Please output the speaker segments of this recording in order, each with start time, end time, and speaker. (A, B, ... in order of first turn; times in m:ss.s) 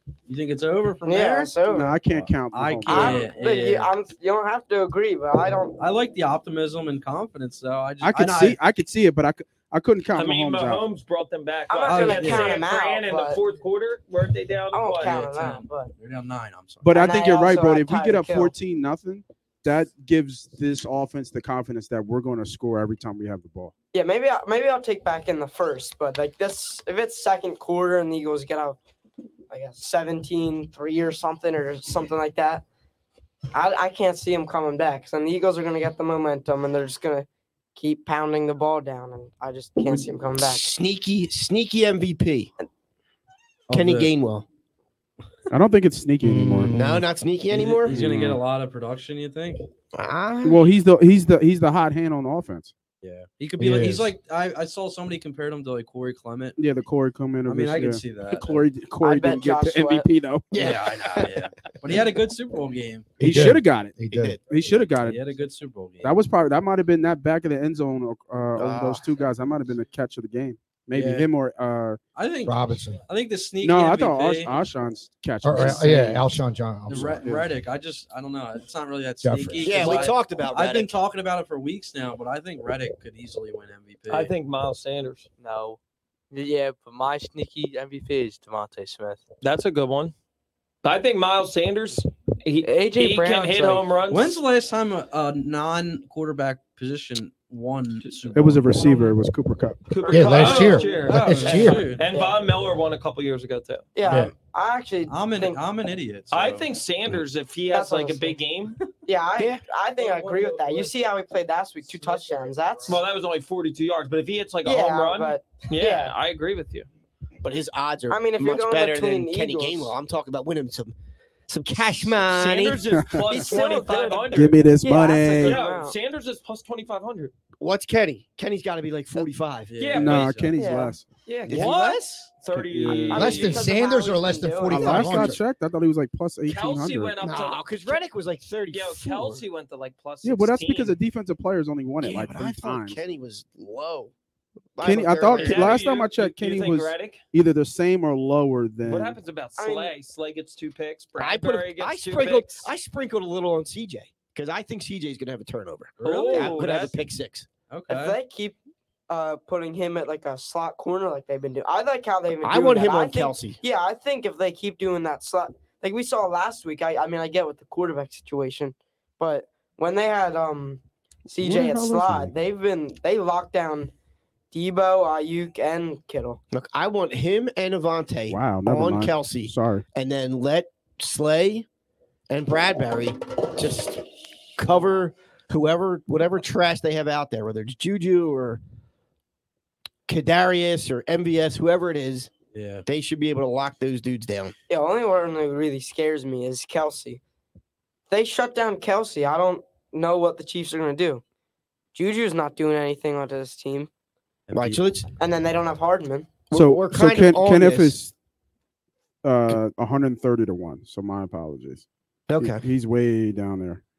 0:00.3-0:03.9 A
0:01.0-0:02.0 B
0:01.6-0:03.3 C
0:02.8-0:05.8 B
0:05.8-0:08.6 A
0:08.0-0:10.8 C
0:10.1-0:15.2 D
0:11.7-0:13.4 B
0:11.8-0:12.7 A
0:14.7-0:15.9 B
0:15.0-0:17.0 A
0:16.8-0:23.7 C
0:16.9-0:18.5 B
0:23.9-0:28.8 B
0:29.5-0:32.6 B
0:33.5-0:40.6 B
0:40.4-0:42.5 E
0:43.7-0:44.1 A
0:43.7-0:44.4 E
0:45.5-0:46.7 C
0:46.2-0:47.0 F
0:46.7-0:48.0 E
0:47.5-0:49.6 A
0:47.9-0:48.4 C
0:49.9-0:50.7 E
0:50.4-0:52.7 C
0:53.0-0:56.6 A
0:53.6-0:54.1 F
0:56.6-1:00.6 C
0:57.4-0:58.6 A
0:59.0-1:00.1 B
1:00.5-1:01.3 E
1:00.5-1:03.2 A
1:03.2-1:04.4 F
1:03.2-1:05.2 C
1:04.1-1:04.4 E
1:05.0-1:06.2 A
1:06.0-1:12.0 C
1:08.6-1:09.1 E
1:10.9-1:11.3 A
1:12.1-1:14.6 A
1:12.4-1:13.0 F
1:13.6-1:16.3 C
1:15.4-1:17.4 F
1:16.9-1:24.3 A
1:16.9-1:17.4 C
1:19.2-1:20.1 F
1:19.6-1:21.0 E
1:24.1-1:25.3 D
1:25.4-1:25.8 G
1:26.3-1:29.2 G
1:29.4-1:30.1 D
1:30.8-1:34.4 D
1:32.6-1:33.8 G
1:34.1-1:38.8 A
1:38.3-1:40.7 C
1:39.9-1:43.9 D
1:40.1-1:41.9 F
1:40.5-1:42.0 A
1:40.7-1:41.1 B
1:42.0-1:42.4 B
1:43.9-1:45.6 B
1:45.1-1:46.7 A
1:46.3-1:48.8 D
1:47.7-1:48.4 B
1:49.0-1:53.0 B
1:49.4-1:49.6 E
1:52.9-1:56.9 D
1:54.6-1:56.1 B
1:57.4-2:00.9 E
1:58.1-1:59.9 B
2:01.5-2:02.8 E
2:02.2-2:07.3 D
2:02.9-2:03.5 C
2:03.3-2:06.0 B
2:04.3-2:05.6 C
2:07.6-2:09.8 E
2:09.7-2:10.6 A
2:09.8-2:10.3 D
2:09.9-2:11.0 C
2:10.5-2:11.0 B
2:11.2-2:15.0 D
2:11.5-2:12.3 E
2:11.5-2:12.0 A
2:12.5-2:13.5 C
2:13.1-2:15.4 F
2:13.4-2:14.8 B
2:14.7-2:17.1 C
2:16.4-2:18.0 D
2:17.2-2:19.4 E
2:18.7-2:20.9 D
2:20.2-2:23.0 C
2:22.0-2:24.1 E
2:24.8-2:25.8 E
2:24.8-2:29.2 C
2:25.3-2:27.2 D
2:28.8-2:32.7 D
2:29.6-2:29.9 B
2:31.2-2:37.5 E
2:36.0-2:36.8 A
2:36.0-2:37.0 D
2:37.7-2:38.2 A
2:37.9-2:38.6 B
2:39.1-2:53.9 B
2:42.4-2:43.6 E
2:51.4-2:52.3 C
2:54.5-2:56.4 B
2:56.5-3:01.6 E
2:58.3-2:59.8 C
3:02.3-3:08.6 E
3:10.1-3:12.3 E
3:12.5-3:12.8 A
3:12.8-3:14.5 E
3:14.7-3:17.2 B
3:18.1-3:21.2 B
3:21.9-3:23.9 B
3:24.5-3:24.9 A
3:24.5-3:25.1 E
3:25.2-3:26.4 B
3:26.5-3:28.0 E
3:26.5-3:28.1 C
3:29.2-3:31.8 C
3:32.3-3:32.7 E
3:32.4-3:33.8 C